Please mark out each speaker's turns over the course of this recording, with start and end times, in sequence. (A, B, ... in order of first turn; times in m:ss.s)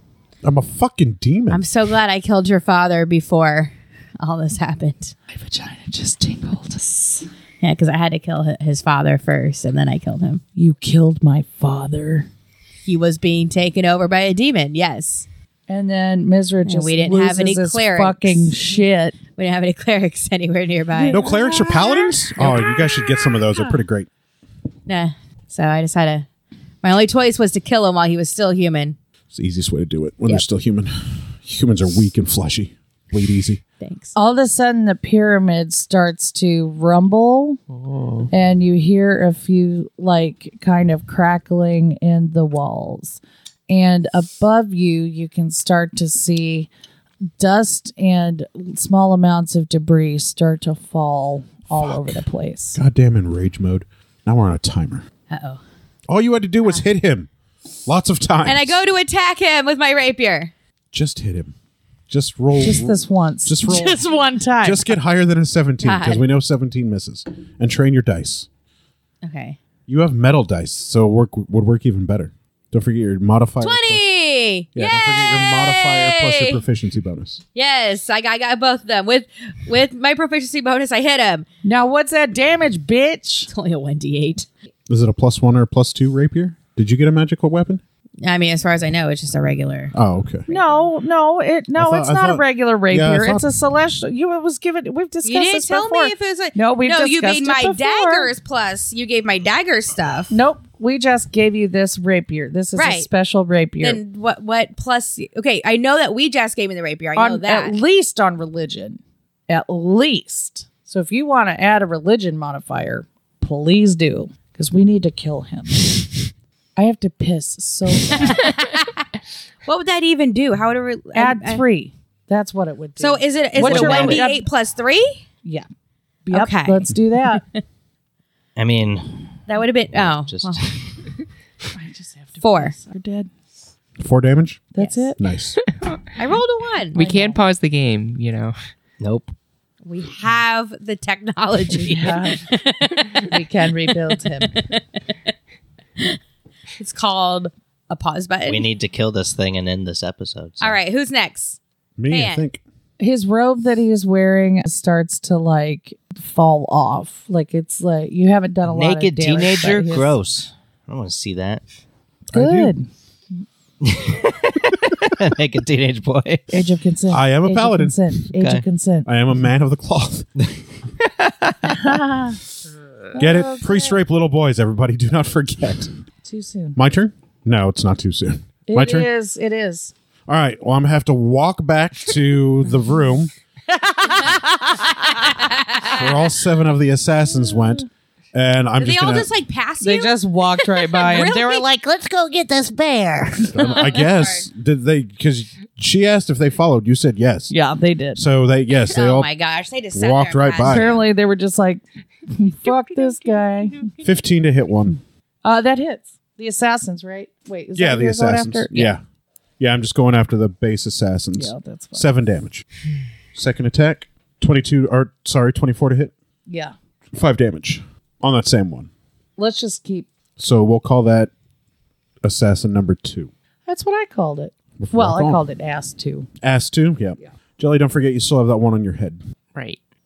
0:00.4-0:01.6 A
0:01.5-0:05.2 B
0:05.3-0:07.3 C
0:07.6-0:10.4 B
0:10.6-0:12.3 C
0:12.9-0:15.3 B
0:15.7-0:19.2 C
0:16.6-0:21.2 B
0:20.9-0:22.2 C
0:21.1-0:24.1 A
0:24.9-0:26.3 B
0:26.8-0:29.0 B
0:29.3-0:33.6 A
0:33.8-0:34.1 B
0:34.1-0:37.6 C
0:37.7-0:38.3 D
0:38.3-0:46.7 C
0:47.4-0:52.8 C
0:51.8-0:52.1 A
0:52.8-0:55.1 A
0:55.3-0:55.6 B
0:56.1-0:57.3 A
0:57.9-0:58.8 A
0:58.4-1:00.5 B
1:00.9-1:01.5 A
1:02.1-1:04.0 A
1:02.6-1:04.9 C
1:04.6-1:08.5 A
1:05.8-1:06.2 B
1:09.2-1:09.6 B
1:09.9-1:14.0 A
1:13.6-1:16.6 B
1:14.8-1:17.4 A
1:17.6-1:21.5 B
1:21.6-1:23.5 C
1:23.5-1:24.5 B
1:24.9-1:27.8 A
1:28.2-1:29.9 B
1:29.9-1:30.5 A
1:30.5-1:30.8 B
1:30.5-1:38.3 C
1:31.8-1:33.5 A
1:35.2-1:40.3 B
1:40.3-1:44.0 C
1:42.8-1:43.1 B
1:43.8-1:47.8 B
1:47.2-1:55.9 C
1:56.8-1:58.5 C
1:58.1-1:59.0 B
1:59.6-2:01.6 B
2:01.2-2:04.5 C
2:03.0-2:05.2 B
2:03.6-2:04.2 E
2:06.3-2:07.4 C
2:06.3-2:07.6 B
2:08.6-2:11.1 E
2:09.5-2:10.7 B
2:11.8-2:13.3 C
2:12.4-2:12.8 B
2:14.0-2:15.6 A
2:14.8-2:15.2 C
2:14.8-2:15.1 B
2:15.7-2:16.0 D
2:16.2-2:17.0 B
2:17.0-2:17.4 C
2:17.0-2:18.6 D
2:19.0-2:19.3 E
2:19.8-2:24.8 B
2:21.7-2:22.5 C
2:23.3-2:24.6 C
2:26.8-2:28.7 B
2:28.4-2:30.8 E
2:30.6-2:31.6 B
2:32.0-2:32.6 A
2:32.1-2:32.4 B
2:33.0-2:40.1 C
2:38.6-2:41.6 E
2:42.3-2:42.7 A
2:42.3-2:42.9 C
2:43.8-2:46.6 E
2:46.5-2:49.1 C
2:47.1-2:48.0 A
2:48.4-2:48.6 E
2:49.1-2:50.3 A
2:50.4-2:51.9 E
2:51.6-2:52.4 C
2:53.1-2:54.0 C
2:53.2-2:56.0 A
2:56.2-2:56.8 C
2:56.8-2:59.1 A
2:58.7-2:59.9 C
3:00.3-3:03.3 A
3:03.7-3:05.5 C
3:05.5-3:06.0 B
3:05.9-3:09.3 A
3:08.8-3:11.7 B
3:09.8-3:13.6 C
3:13.5-3:14.5 B
3:13.5-3:17.5 A
3:17.5-3:18.2 C
3:18.2-3:19.3 A
3:18.9-3:21.0 B
3:19.9-3:21.0 A
3:20.6-3:23.9 C
3:22.9-3:24.0 B
3:24.0-3:25.0 A
3:25.4-3:28.9 C
3:27.8-3:29.0 A
3:29.6-3:32.7 A
3:31.4-3:32.1 C
3:33.3-3:36.1 A
3:36.5-3:36.7 C
3:37.1-3:38.9 A
3:39.4-3:40.1 C
3:40.4-3:41.3 A
3:42.2-3:43.3 A
3:43.7-3:46.3 C
3:44.8-3:45.4 A
3:46.4-3:49.2 A